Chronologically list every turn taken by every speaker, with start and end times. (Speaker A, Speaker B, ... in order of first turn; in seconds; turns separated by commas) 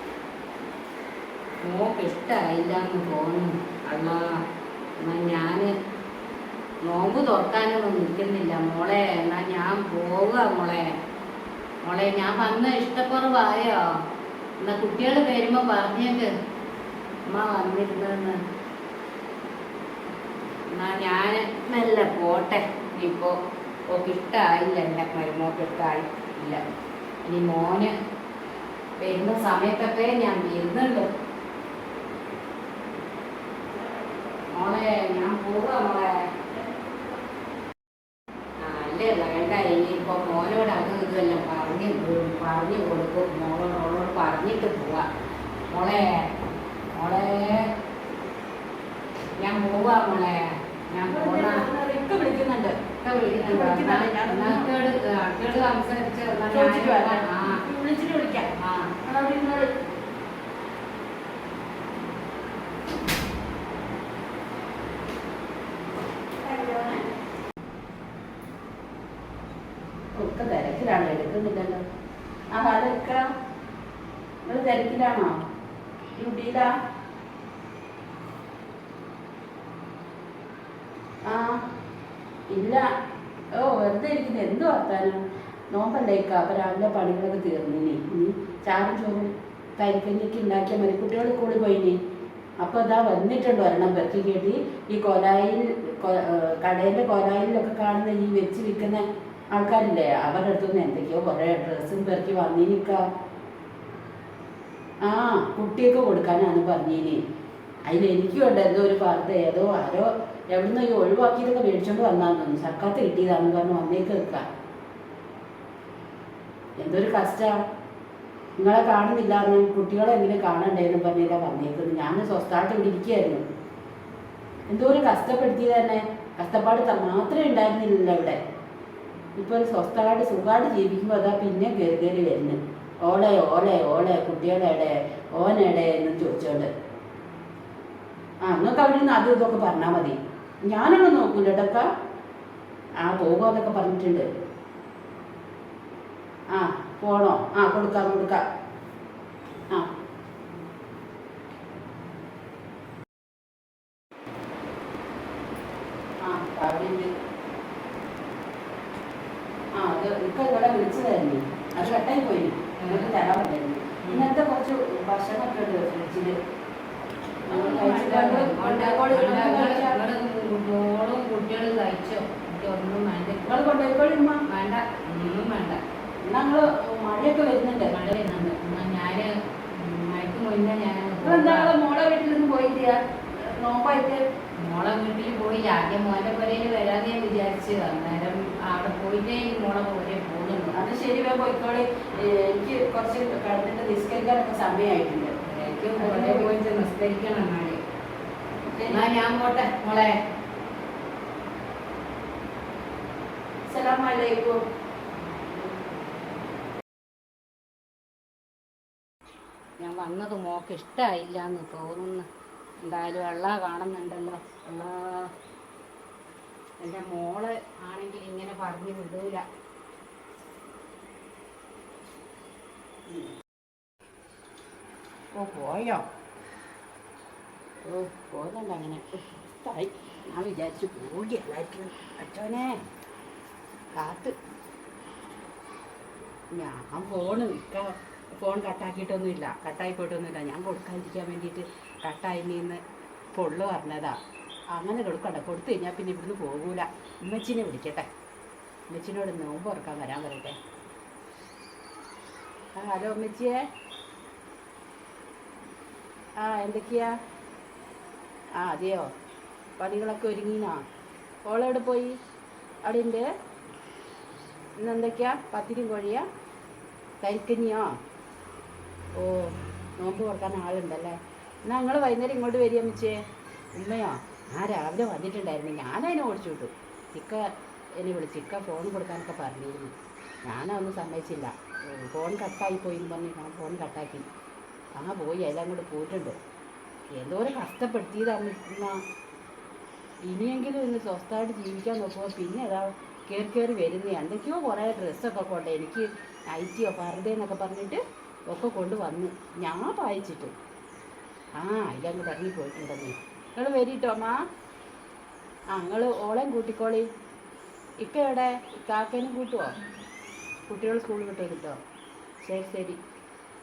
Speaker A: 1.6-4.2, Speaker A: 5.0-5.7, Speaker A: 6.9-10.8, Speaker A: 11.8-13.8, Speaker A: 14.6-16.3, Speaker A: 17.3-18.4, Speaker A: 20.7-23.3, Speaker A: 23.9-26.6, Speaker A: 27.2-27.9, Speaker A: 29.0-31.1, Speaker A: 34.5-36.1, Speaker A: 38.6-45.0, Speaker A: 45.7-46.0, Speaker A: 47.0-47.7, Speaker A: 49.4-50.4, Speaker A: 50.9-51.6, Speaker B: 51.1-52.8, Speaker A: 53.0-57.6, Speaker B: 53.4-54.7, Speaker B: 56.5-58.5, Speaker A: 58.5-58.9, Speaker B: 59.0-59.7, Speaker B: 66.4-67.0, Speaker B: 70.2-71.8, Speaker B: 72.5-73.2, Speaker B: 74.5-75.3, Speaker B: 76.1-76.7, Speaker B: 81.2-81.6, Speaker B: 82.5-82.8, Speaker B: 83.5-85.2, Speaker B: 85.7-92.0, Speaker B: 92.6-103.0, Speaker B: 105.0-107.2, Speaker B: 107.8-114.4, Speaker B: 116.8-117.5, Speaker B: 118.6-123.4, Speaker B: 124.7-128.4, Speaker B: 129.3-136.7, Speaker B: 138.4-141.8, Speaker B: 143.0-144.2, Speaker B: 146.5-148.4, Speaker B: 156.2-157.1, Speaker B: 159.8-166.4, Speaker A: 162.8-163.1, Speaker B: 167.5-170.0, Speaker A: 167.5-173.6, Speaker B: 173.4-174.4, Speaker A: 174.5-175.8, Speaker B: 176.3-177.9, Speaker A: 177.9-181.7, Speaker B: 181.2-184.2, Speaker A: 184.6-190.8, Speaker B: 190.7-195.3, Speaker A: 195.4-197.8, Speaker B: 196.0-196.5, Speaker B: 198.7-199.0, Speaker A: 198.9-200.1, Speaker B: 203.7-204.6, Speaker A: 209.8-212.2, Speaker A: 212.8-215.3, Speaker A: 216.8-219.4, Speaker B: 225.3-226.0, Speaker B: 227.8-232.8, Speaker B: 234.0-234.3, Speaker B: 236.5-242.8, Speaker B: 243.3-244.2, Speaker B: 244.7-248.1, Speaker B: 248.9-250.6, Speaker B: 252.8-253.6, Speaker B: 256.4-257.1, Speaker B: 258.6-259.1, Speaker B: 259.8-260.8, Speaker B: 261.4-262.1, Speaker B: 262.8-263.2, Speaker B: 264.8-266.2, Speaker B: 267.2-267.9, Speaker B: 269.2-273.2, Speaker B: 273.8-277.4, Speaker B: 278.0-279.9, Speaker B: 280.5-284.3, Speaker B: 285.0-286.4, Speaker B: 287.2-289.0, Speaker B: 290.3-300.5, Speaker B: 301.6-304.4, Speaker B: 305.7-307.1, Speaker B: 308.0-309.7, Speaker B: 310.7-311.8, Speaker B: 312.4-313.0